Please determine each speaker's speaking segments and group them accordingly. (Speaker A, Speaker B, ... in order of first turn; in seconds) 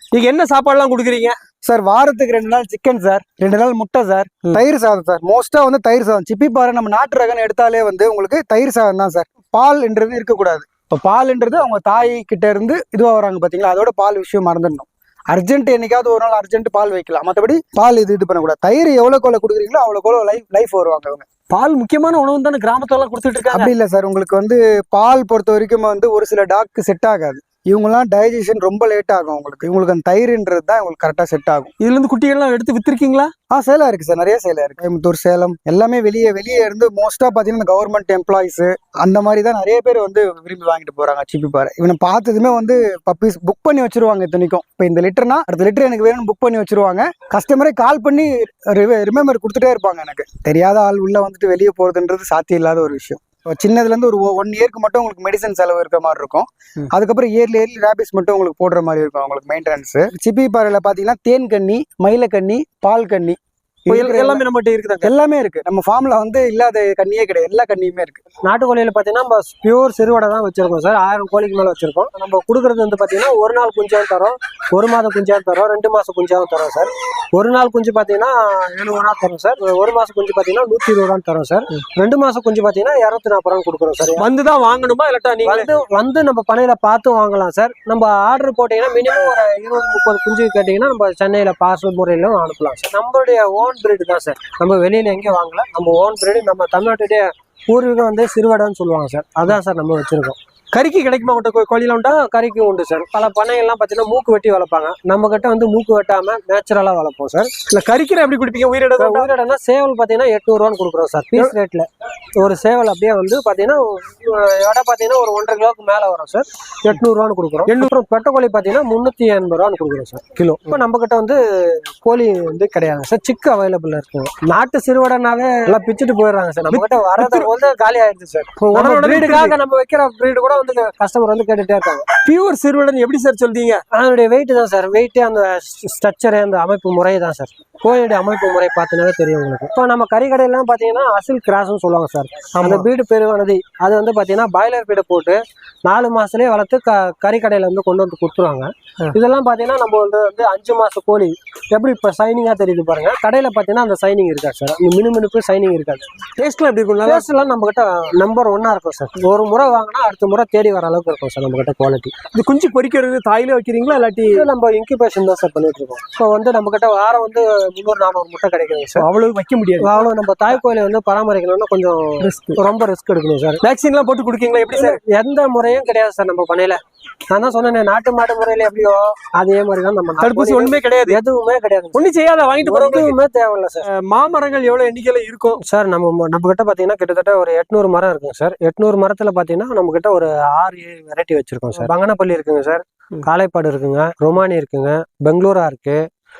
Speaker A: 0.1-1.4, 21.5-23.7, 31.8-33.3, 63.9-65.1, 84.2-85.7, 100.7-102.2, 107.7-109.3, 117.7-117.9, 126.7-127.5, 128.7-129.6, 132.2-133.8, 142.6-142.9, 156.4-157.3, 162.3-164.5, 169.0-170.1, 172.2-172.6, 173.6-175.0, 180.2-181.2, 181.9-183.2, 183.8-185.6
Speaker B: 1.6-21.2, 23.5-31.7, 33.5-64.4, 65.0-68.2
Speaker C: 68.4-84.3, 85.4-100.4, 102.2-107.5, 109.0-132.1, 133.9-156.1, 157.0-162.2, 164.3-169.1, 169.8-173.6, 174.7-182.1, 182.6-183.9, 185.6-196.1